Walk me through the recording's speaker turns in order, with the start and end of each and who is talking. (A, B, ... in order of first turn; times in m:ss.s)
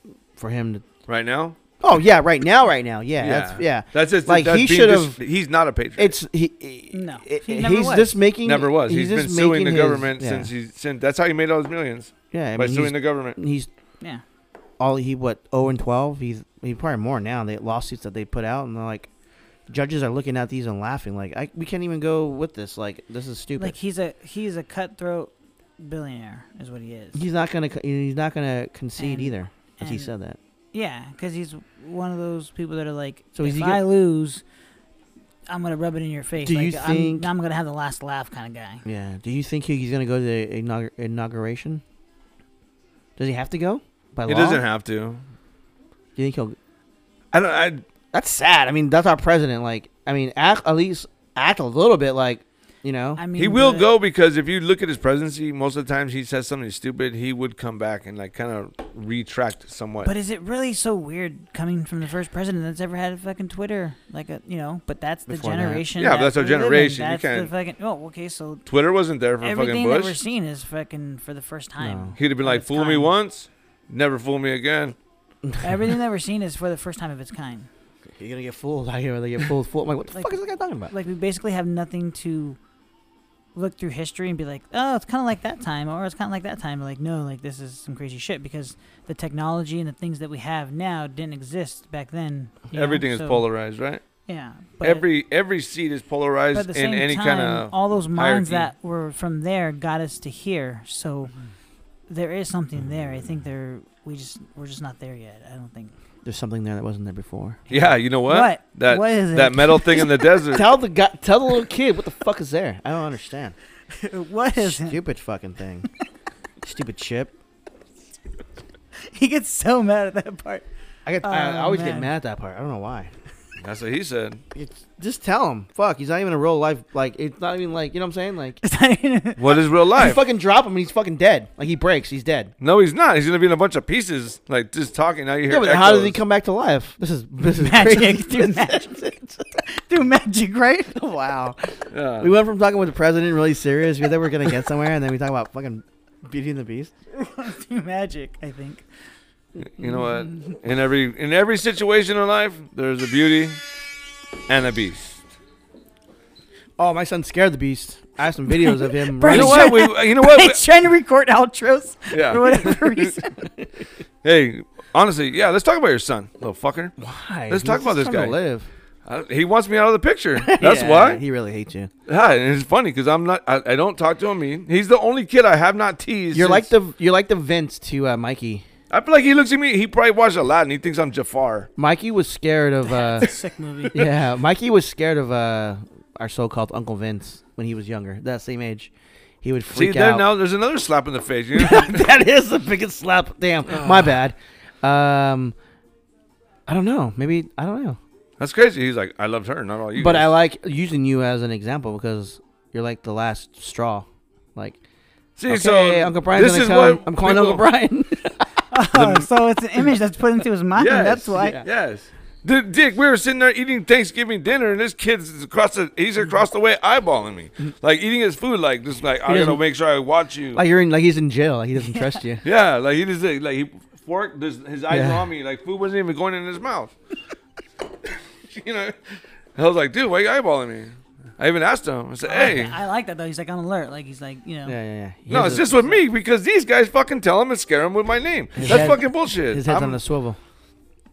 0:00.4-0:00.9 A
0:01.1-0:01.6 B
0:01.8-0:05.2 A
0:03.2-0:06.1 B
0:06.0-0:10.5 A
0:06.9-0:08.2 C
0:08.4-0:13.4 B
0:12.3-0:13.7 A
0:14.8-0:19.1 A
0:19.7-0:23.7 A
0:23.6-0:27.2 C
0:27.1-0:30.4 A
0:29.0-0:30.1 C
0:30.7-0:34.4 C
0:33.3-0:33.8 A
0:35.5-0:38.8 C
0:36.4-0:37.3 A
0:38.8-0:41.8 A
0:43.2-0:44.6 A
0:44.2-0:45.2 B
0:46.2-0:46.6 A
0:47.3-0:47.8 B
0:48.1-0:53.2 A
0:53.2-0:53.9 C
0:53.3-1:00.1 B
1:00.0-1:08.6 C
1:05.3-1:05.9 A
1:06.0-1:07.5 B
1:08.6-1:10.2 B
1:09.4-1:13.1 C
1:11.8-1:12.2 A
1:12.2-1:15.0 B
1:15.6-1:17.7 C
1:18.2-1:20.9 A
1:20.1-1:22.6 C
1:23.5-1:33.4 C
1:32.7-1:34.0 B
1:34.3-1:35.1 C
1:34.8-1:38.7 B
1:36.5-1:41.3 C
1:42.1-1:45.9 C
1:46.2-1:47.6 A
1:47.7-1:50.4 C
1:47.7-1:50.7 B
1:50.5-1:53.6 A
1:53.9-1:55.0 C
1:54.6-1:55.9 A
1:56.6-1:57.4 A
1:59.0-2:00.6 C
2:01.0-2:03.1 A
2:01.2-2:02.1 C
2:03.6-2:04.4 B
2:04.5-2:08.6 A
2:08.6-2:09.6 C
2:09.4-2:10.2 B
2:09.9-2:12.5 A
2:12.6-2:16.2 B
2:15.5-2:19.4 A
2:17.4-2:19.0 C
2:19.6-2:21.0 C
2:20.9-2:26.9 A
2:21.9-2:22.3 B
2:27.1-2:28.8 C
2:29.8-2:33.6 B
2:34.5-2:35.2 B
2:36.8-2:39.8 A
2:38.6-2:43.5 C
2:39.3-2:40.6 B
2:42.1-2:43.1 B
2:44.2-2:46.9 B
2:47.0-2:48.7 A
2:47.5-2:48.4 B
2:49.0-2:51.2 B
2:50.4-2:51.9 A
2:52.1-2:56.7 B
2:56.3-2:58.6 A
2:58.9-3:01.7 B
3:01.8-3:03.3 A
3:02.8-3:04.1 C
3:03.9-3:08.9 A
3:09.4-3:10.3 A
3:09.7-3:12.1 B
3:11.5-3:15.5 A
3:13.7-3:14.1 B
3:16.7-3:18.0 A
3:18.4-3:20.3 B
3:19.9-3:24.8 A
3:25.4-3:27.6 B
3:25.5-3:28.6 A
3:28.7-3:31.6 C
3:29.0-3:29.2 B
3:30.8-3:40.6 B
3:31.3-3:31.6 A
3:39.2-3:39.6 A
3:40.5-3:42.4 A
3:41.8-3:42.2 C
3:42.4-3:46.9 B
3:44.9-3:45.3 A
3:48.0-3:49.0 B
3:49.6-3:52.8 B
3:52.2-3:54.8 C
3:54.6-3:55.9 A
3:55.3-4:00.0 B
3:58.6-4:00.4 A